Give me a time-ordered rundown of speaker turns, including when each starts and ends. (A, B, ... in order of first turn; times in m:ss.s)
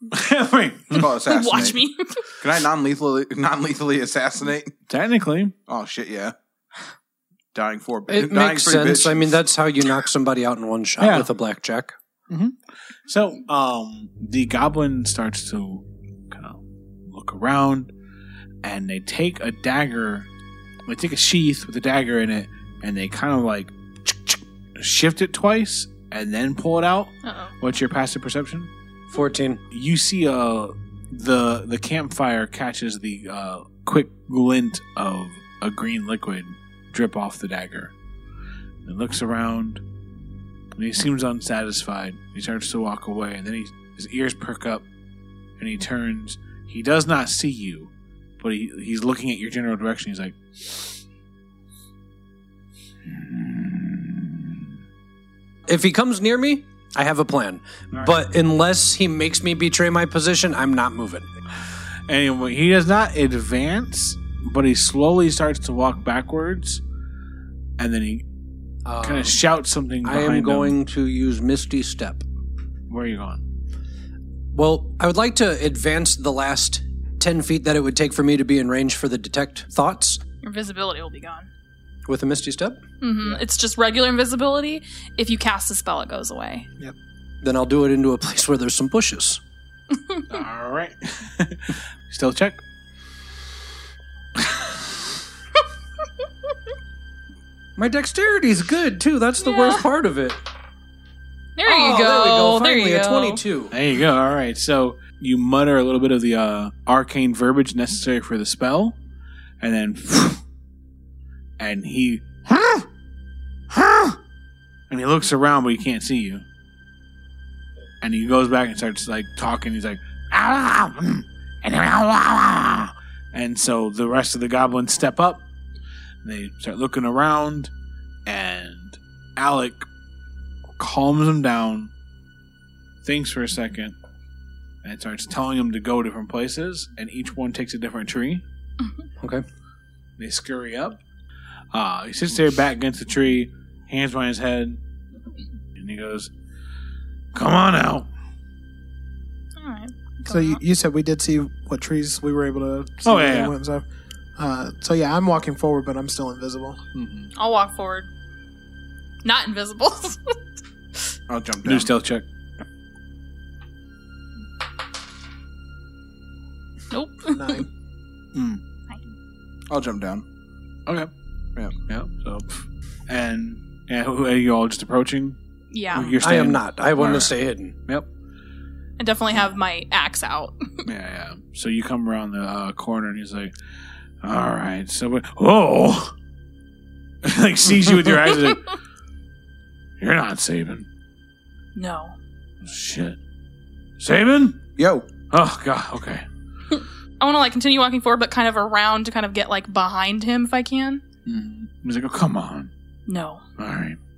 0:00.1-0:01.7 A
0:00.9-0:01.8 B
0:01.2-0:02.2 C
0:02.4-0:04.7 B
0:04.9-0:05.6 A
0:05.7-0:06.4 B
0:07.5-0:09.4 B
0:08.1-0:12.0 D
0:11.0-0:11.3 A
0:12.3-0:12.6 A
0:13.1-0:17.9 A
0:18.6-0:20.3 A
0:20.9-0:28.7 A
0:27.2-0:27.5 C
0:29.1-0:29.6 D
0:29.7-0:37.9 A
0:38.8-0:39.8 A
0:40.8-0:44.8 A
0:45.6-0:51.0 A
0:53.1-0:54.6 A
0:55.7-1:01.3 D
1:02.1-1:06.8 A
1:07.8-1:08.2 A
1:08.8-1:09.4 D
1:09.0-1:10.8 A
1:10.0-1:12.2 D
1:12.9-1:13.4 A
1:14.5-1:20.2 D
1:20.4-1:21.5 C
1:22.1-1:22.8 D
1:23.0-1:26.7 C
1:27.4-1:29.4 D
1:30.0-1:30.2 C
1:30.3-1:32.6 A
1:34.5-1:34.7 A
1:37.8-1:40.4 D
1:39.4-1:39.8 C
1:41.6-1:43.4 C
1:41.6-1:43.8 D
1:43.7-1:49.0 A
1:49.6-1:50.4 A
1:51.6-1:52.9 A
1:53.7-1:54.2 A
1:54.9-1:56.4 A
1:58.0-2:05.4 A
2:06.2-2:07.7 A
2:08.3-2:09.9 A
2:10.8-2:11.9 A
2:13.0-2:14.0 A
2:14.8-2:18.4 A
2:20.2-2:21.0 A
2:21.7-2:24.8 A
2:25.8-2:26.3 A
2:27.3-2:28.1 A
2:29.6-2:30.6 C
2:30.3-2:33.8 E
2:33.0-2:33.5 A
2:34.4-2:36.8 E
2:37.0-2:37.3 A
2:37.4-2:38.1 C
2:39.2-2:40.3 C
2:41.3-2:41.9 B
2:41.6-2:42.2 A
2:46.9-2:47.6 C
2:47.3-2:47.7 E
2:48.3-2:48.6 A
2:49.7-2:50.2 B
2:51.8-2:55.4 A
2:55.7-2:56.2 C
2:55.9-2:57.3 A
2:56.2-2:57.8 D
2:59.0-3:00.8 C
3:00.8-3:03.5 A
3:04.2-3:06.1 A
3:07.2-3:08.8 A
3:10.0-3:10.9 A
3:11.8-3:12.2 C
3:12.6-3:13.2 A
3:14.0-3:14.6 A
3:14.8-3:15.1 B
3:15.3-3:16.2 A
3:16.7-3:21.0 C
3:21.3-3:22.7 A
3:23.1-3:23.4 C
3:23.6-3:24.0 A